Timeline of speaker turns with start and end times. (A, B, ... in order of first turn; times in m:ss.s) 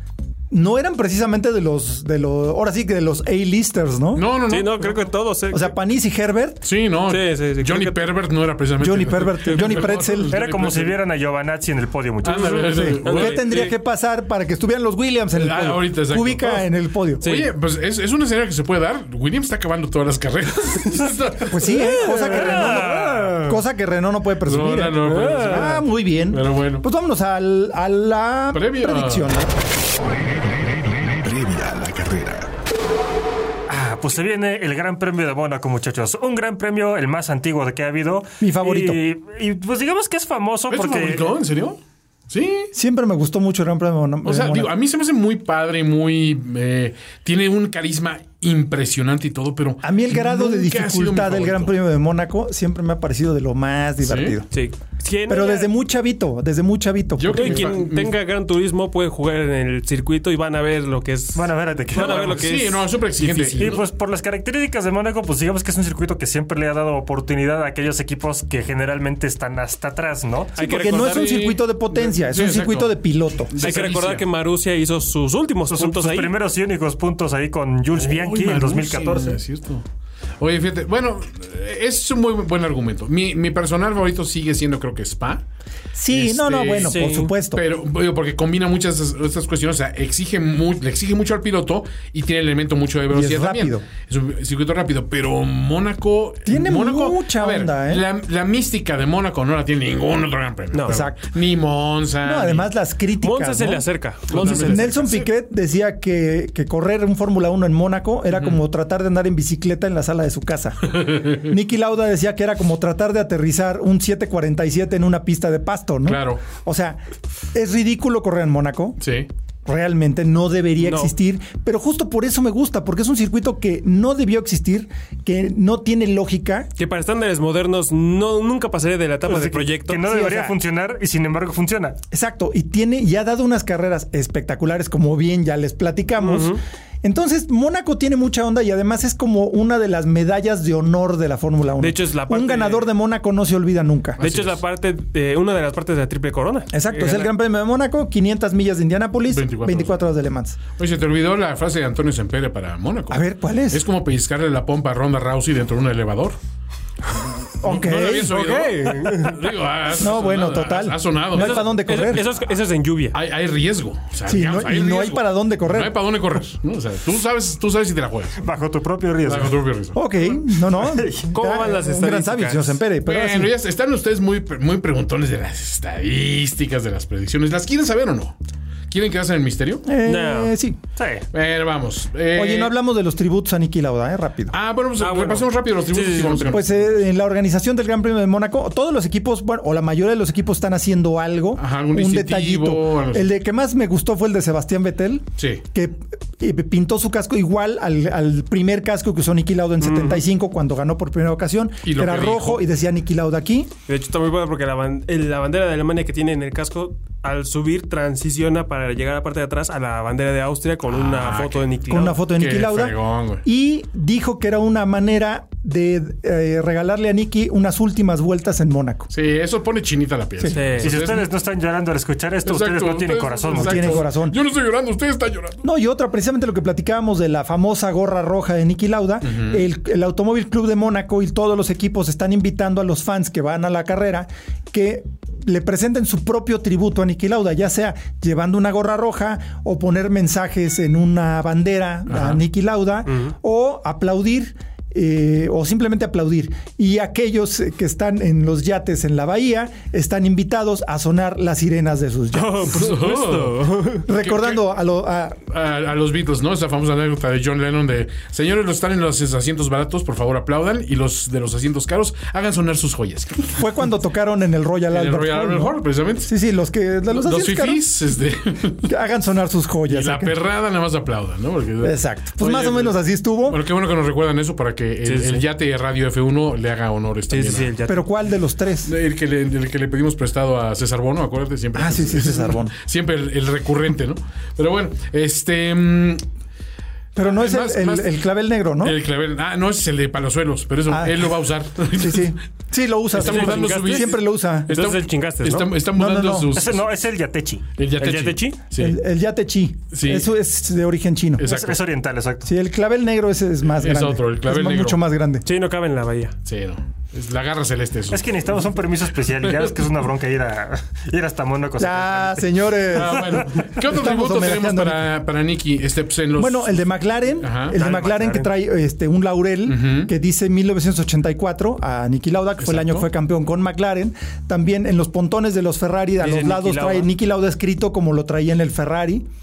0:00.5-0:04.3 A
0:04.1-0:05.0 B
0:04.5-0:05.8 C
0:05.5-0:06.6 A
0:06.6-0:11.0 B
0:07.1-0:08.0 C
0:08.8-0:10.3 A
0:10.3-0:12.9 D
0:12.2-0:13.4 B
0:12.6-0:17.3 A
0:13.0-0:13.8 C
0:15.3-0:16.7 B
0:17.2-0:17.5 C
0:17.2-0:21.6 B
0:21.4-0:29.6 A
0:21.6-0:23.6 C
0:24.4-0:26.8 B
0:25.0-0:25.7 C
0:28.5-0:29.3 B
0:29.8-0:32.5 E
0:33.7-0:41.4 D
0:38.4-0:39.0 A
0:40.7-0:42.7 B
0:42.7-0:44.7 A
0:44.2-0:51.7 B
0:49.8-0:54.5 A
0:54.0-0:54.4 B
0:54.5-0:55.7 C
0:55.3-0:57.8 A
0:57.2-0:58.1 B
0:57.3-1:03.8 C
1:01.4-1:02.5 D
1:02.0-1:03.9 B
1:03.6-1:10.5 D
1:10.6-1:11.6 C
1:10.6-1:13.0 B
1:10.7-1:13.6 A
1:13.5-1:14.3 B
1:13.6-1:16.3 C
1:15.7-1:19.4 D
1:18.0-1:19.8 B
1:20.4-1:25.4 B
1:25.9-1:27.6 A
1:26.1-1:42.7 B
1:26.8-1:27.3 C
1:33.1-1:33.9 A
1:36.4-1:38.0 A
1:40.7-1:41.1 C
1:40.9-1:41.3 A
1:42.2-1:57.0 A
1:43.2-1:45.1 C
1:44.3-1:45.3 B
1:50.9-1:51.4 B
1:56.0-1:56.4 B
1:57.5-1:59.0 A
1:59.0-1:59.3 B
1:59.6-2:06.7 A
2:00.8-2:01.1 C
2:06.8-2:10.1 C
2:09.2-2:12.0 D
2:10.0-2:10.6 A
2:12.1-2:24.2 A
2:16.2-2:16.6 C
2:21.8-2:22.9 C
2:24.2-2:24.6 B
2:24.2-2:27.3 C
2:26.7-2:30.6 A
2:29.3-2:30.0 B
2:30.8-2:36.4 B
2:33.1-2:33.8 A
2:37.6-2:41.7 B
2:37.6-2:38.4 A
2:38.3-2:39.5 C
2:39.9-2:42.2 A
2:41.4-2:43.2 C
2:43.1-2:48.4 B
2:44.3-2:46.0 A
2:48.4-2:49.6 D
2:49.2-2:50.0 B
2:49.9-2:53.5 A
2:50.8-2:51.2 D
2:51.3-2:52.8 C
2:53.0-2:58.4 B
2:58.9-2:59.9 B
2:59.8-3:00.8 A
3:00.0-3:00.6 C
3:01.0-3:01.2 D
3:01.3-3:02.7 B
3:02.4-3:04.6 A
3:04.5-3:06.8 B
3:05.0-3:06.6 C
3:06.5-3:23.7 A
3:11.6-3:13.3 B
3:15.4-3:15.6 B
3:19.8-3:20.2 C
3:21.8-3:22.6 B
3:23.9-3:32.2 C
3:30.9-3:33.4 B
3:31.9-3:39.1 A
3:39.1-3:41.3 B
3:40.5-3:41.0 C
3:40.8-3:44.0 D
3:42.4-3:45.6 B
3:43.5-3:44.4 A
3:45.6-4:12.8 A
3:49.2-3:49.6 B
4:02.1-4:02.4 B
4:03.1-4:03.3 C
4:12.3-4:14.0 C
4:12.7-4:13.7 B
4:14.1-4:15.4 A
4:14.2-4:14.6 B
4:15.5-4:23.7 B
4:23.6-4:27.8 A
4:24.9-4:26.3 B
4:27.1-4:28.9 B
4:28.8-4:30.4 A
4:29.9-4:37.7 B
4:31.8-4:33.6 A
4:35.0-4:35.4 C
4:37.3-4:38.1 C
4:37.9-4:38.9 A
4:38.8-4:46.2 B
4:41.7-4:42.7 A
4:47.1-4:49.0 A
4:47.2-4:48.2 B
4:48.8-4:52.4 B
4:50.9-4:51.3 A
4:51.9-4:54.7 A
4:53.1-4:54.2 B
4:53.2-4:55.7 C
4:54.7-4:56.9 B
4:55.9-4:56.5 A
4:56.6-4:57.7 D
4:57.8-4:59.0 B
4:58.0-4:58.6 C
4:58.8-5:01.5 A
4:59.9-5:00.3 B
5:01.4-5:01.8 B
5:01.4-5:02.5 D
5:02.4-5:05.4 A
5:03.8-5:05.0 B
5:05.4-5:06.4 C
5:06.4-5:08.7 B
5:08.1-5:12.6 D
5:09.3-5:09.8 B
5:11.8-5:15.0 A
5:12.9-5:16.8 B
5:16.4-5:29.3 A
5:17.4-5:17.8 B
5:17.7-5:18.5 D
5:19.6-5:20.1 B
5:22.6-5:23.1 B
5:26.2-5:27.1 C